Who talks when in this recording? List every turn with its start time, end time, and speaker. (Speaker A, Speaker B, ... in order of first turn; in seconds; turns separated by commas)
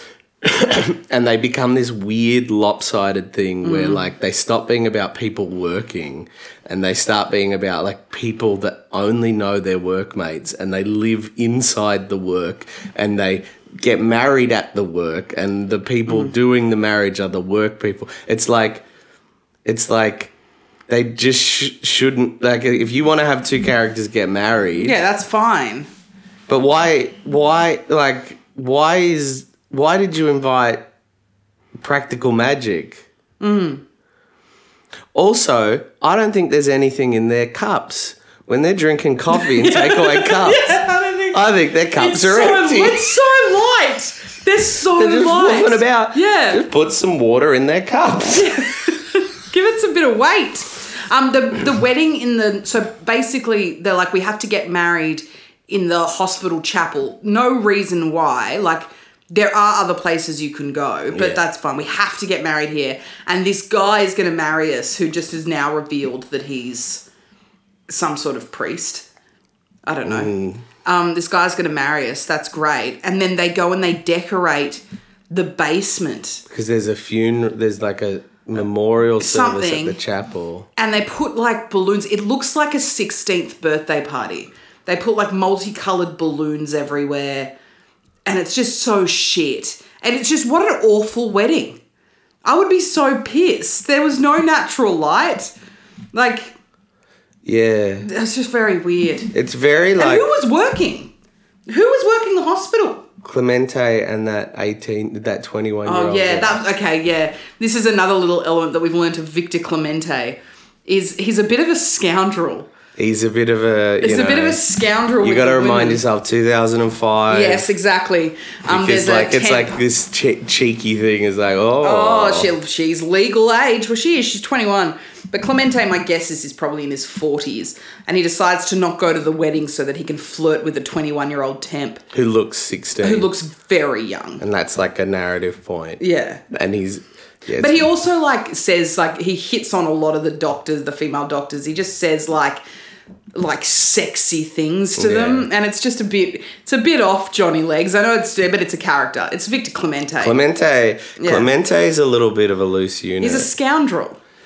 Speaker A: 0.4-18.9, Speaker B: 3.6-4.1, Speaker B: 16.1-16.3, Speaker A: 19.6-20.3, Speaker A: 20.9-25.0, Speaker B: 24.8-25.9, Speaker A: 26.5-30.9, Speaker A: 31.8-33.0, Speaker B: 33.4-33.8, Speaker A: 35.1-40.8, Speaker B: 39.4-46.6, Speaker A: 41.3-43.1, Speaker A: 45.0-48.6, Speaker B: 48.3-67.1, Speaker A: 61.1-61.4, Speaker B: 67.9-69.1, Speaker B: 69.8-76.4, Speaker A: 70.0-70.7, Speaker A: 76.5-80.7, Speaker B: 79.2-80.0, Speaker B: 80.8-87.5, Speaker B: 88.3-91.8, Speaker B: 92.4-95.5, Speaker B: 96.1-96.5, Speaker A: 97.5-98.1, Speaker B: 98.0-99.3, Speaker A: 99.3-100.3, Speaker B: 100.0-101.1, Speaker B: 101.7-103.1, Speaker A: 103.2-106.6, Speaker B: 105.8-112.7, Speaker A: 113.0-114.6, Speaker B: 114.0-116.0, Speaker A: 115.2-117.7, Speaker B: 117.3-119.7, Speaker A: 118.7-122.5, Speaker B: 121.8-132.0, Speaker A: 132.1-133.3, Speaker B: 133.0-134.4, Speaker A: 134.4-137.9, Speaker B: 136.0-136.4, Speaker B: 137.6-142.6, Speaker B: 143.3-150.4, Speaker A: 145.0-145.5, Speaker A: 150.2-153.5, Speaker B: 151.2-151.5, Speaker B: 153.2-154.2